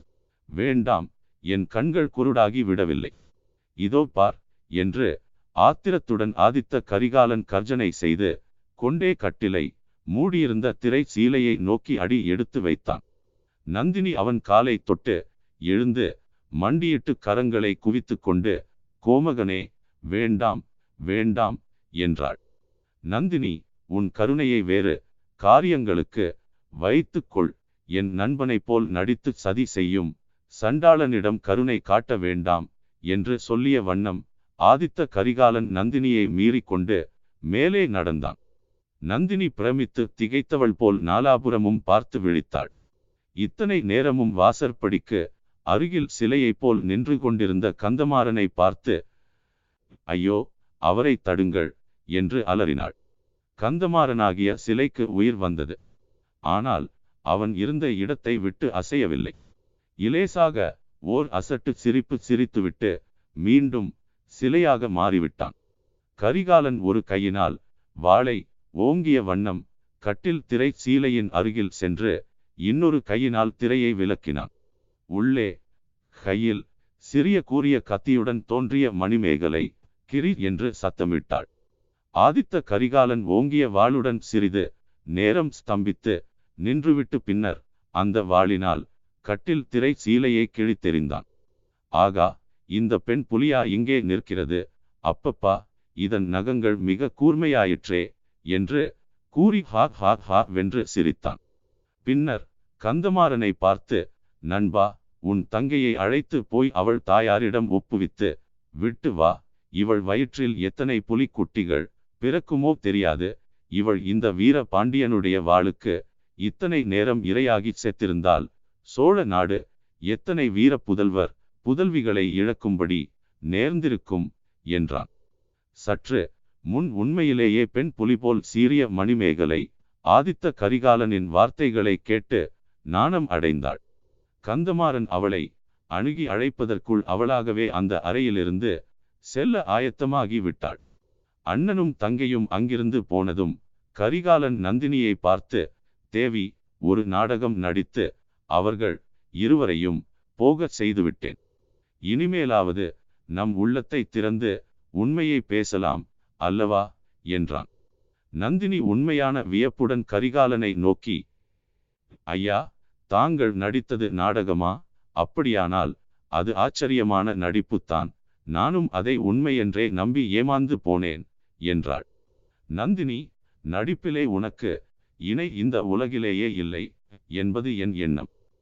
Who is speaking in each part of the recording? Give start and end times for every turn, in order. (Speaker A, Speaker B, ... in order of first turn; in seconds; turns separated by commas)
Speaker A: 0.5-3.1, Speaker A: 3.8-13.0, Speaker A: 13.7-22.4, Speaker A: 23.1-26.3, Speaker A: 26.8-37.0, Speaker A: 37.5-38.4, Speaker A: 39.1-42.7, Speaker A: 43.4-49.0, Speaker A: 50.1-52.9, Speaker A: 53.6-55.8, Speaker A: 56.5-59.4, Speaker A: 60.0-65.5, Speaker A: 66.2-74.5, Speaker A: 75.1-75.5, Speaker A: 76.2-81.5, Speaker A: 82.2-91.2, Speaker A: 92.0-101.4, Speaker A: 102.0-125.1, Speaker A: 125.8-133.8, Speaker A: 134.4-138.7, Speaker A: 139.3-140.8, Speaker A: 141.5-151.4, Speaker A: 152.1-157.7, Speaker A: 158.4-161.2, Speaker A: 162.3-172.1, Speaker A: 172.8-174.7, Speaker A: 175.2-178.3